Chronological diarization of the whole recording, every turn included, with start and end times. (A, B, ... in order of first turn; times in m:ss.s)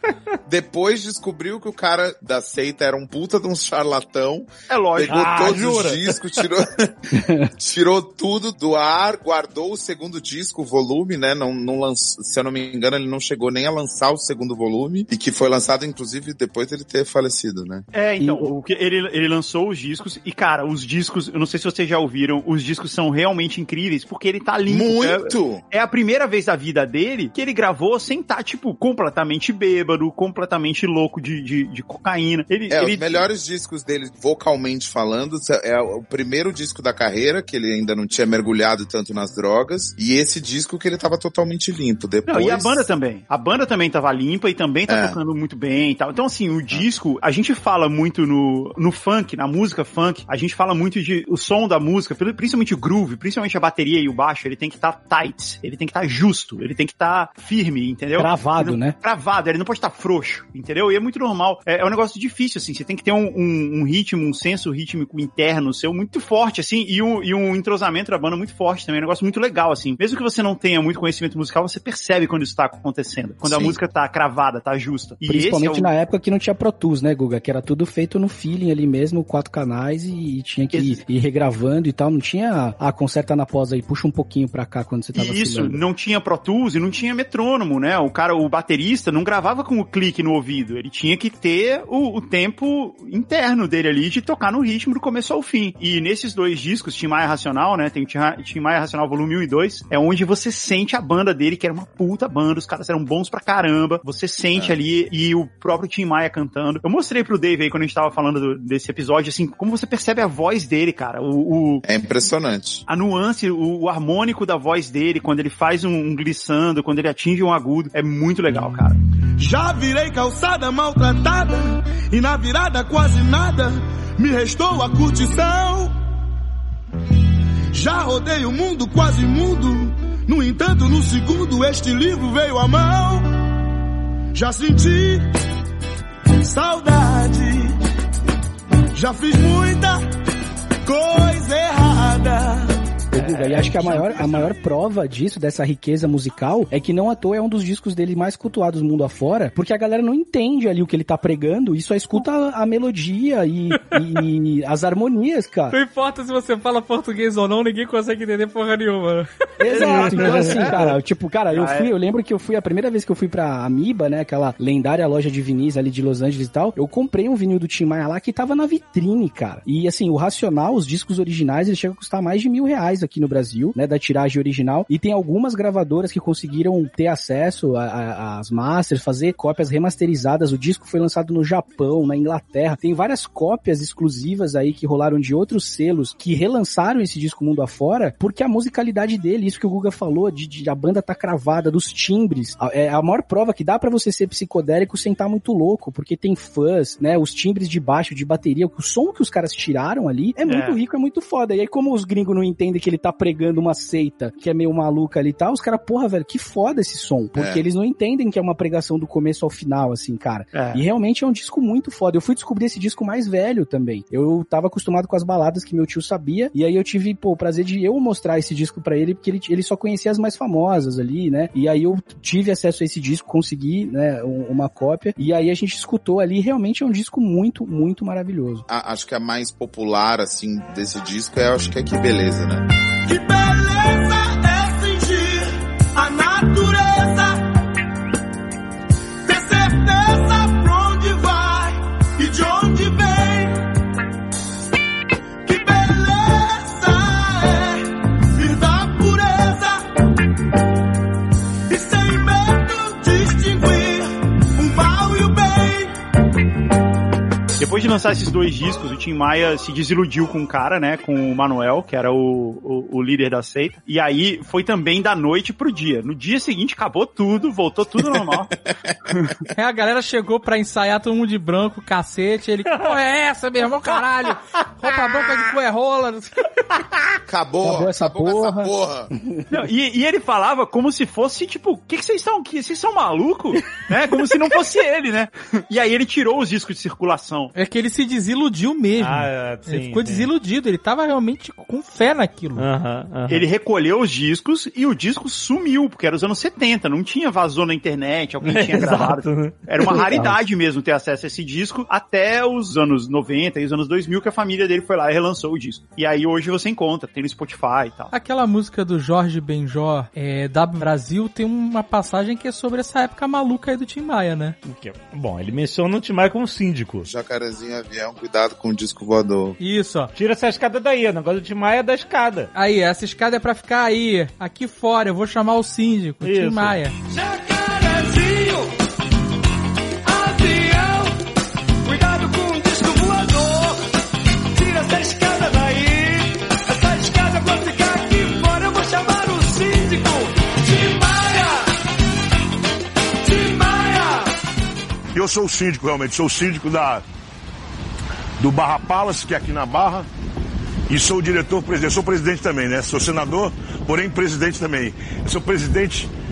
0:00.4-0:06.9 A
0:04.7-0:06.1 B
0:07.1-0:07.5 C
0:07.6-0:17.8 A
0:17.9-0:33.3 B
0:18.2-0:18.5 C
0:24.7-0:25.6 A
0:32.7-0:42.9 A
0:42.3-1:15.9 B
0:44.9-0:45.2 A
0:58.2-0:59.0 C
1:13.4-1:13.8 A
1:15.2-1:25.8 C
1:20.7-1:21.0 B
1:25.1-1:51.8 B
1:51.8-1:52.8 A
1:52.9-1:59.0 B
1:59.4-2:05.9 D
2:07.7-2:13.4 D
2:14.3-2:15.3 D
2:16.4-2:17.7 D
2:18.9-2:20.0 D
2:20.8-2:22.7 D
2:23.1-2:35.8 C
2:23.2-2:24.5 B
2:35.7-2:39.3 E
2:39.6-3:48.6 C
2:39.7-2:41.0 B
2:41.5-2:41.9 B
3:20.4-3:20.8 B
3:27.4-3:27.6 A
3:30.5-3:30.8 B
3:48.7-3:52.6 A
3:53.0-3:57.4 D
3:59.2-4:03.6 D
4:05.4-4:09.8 D
4:11.7-4:15.9 D
4:17.6-4:28.5 B
4:29.5-4:36.5 E
4:37.3-4:39.1 A
4:37.6-4:39.6 C
4:39.5-4:47.5 B
4:47.5-4:52.6 E
4:49.0-4:50.3 F
4:52.6-4:53.5 F
4:53.3-5:08.1 B
4:58.4-5:00.2 F
5:00.0-5:00.3 C
5:08.1-5:14.6 E
5:14.6-5:17.1 F
5:17.0-5:19.6 A
5:19.6-5:20.1 E
5:20.1-5:22.5 F
5:22.5-5:26.9 E
5:26.2-5:26.8 F
5:27.1-5:28.7 D
5:30.0-5:31.2 D
5:31.8-5:33.8 D
5:34.5-5:41.7 D
5:43.2-5:44.3 D
5:45.1-5:47.0 G
5:48.4-5:50.1 G
5:50.9-5:56.1 G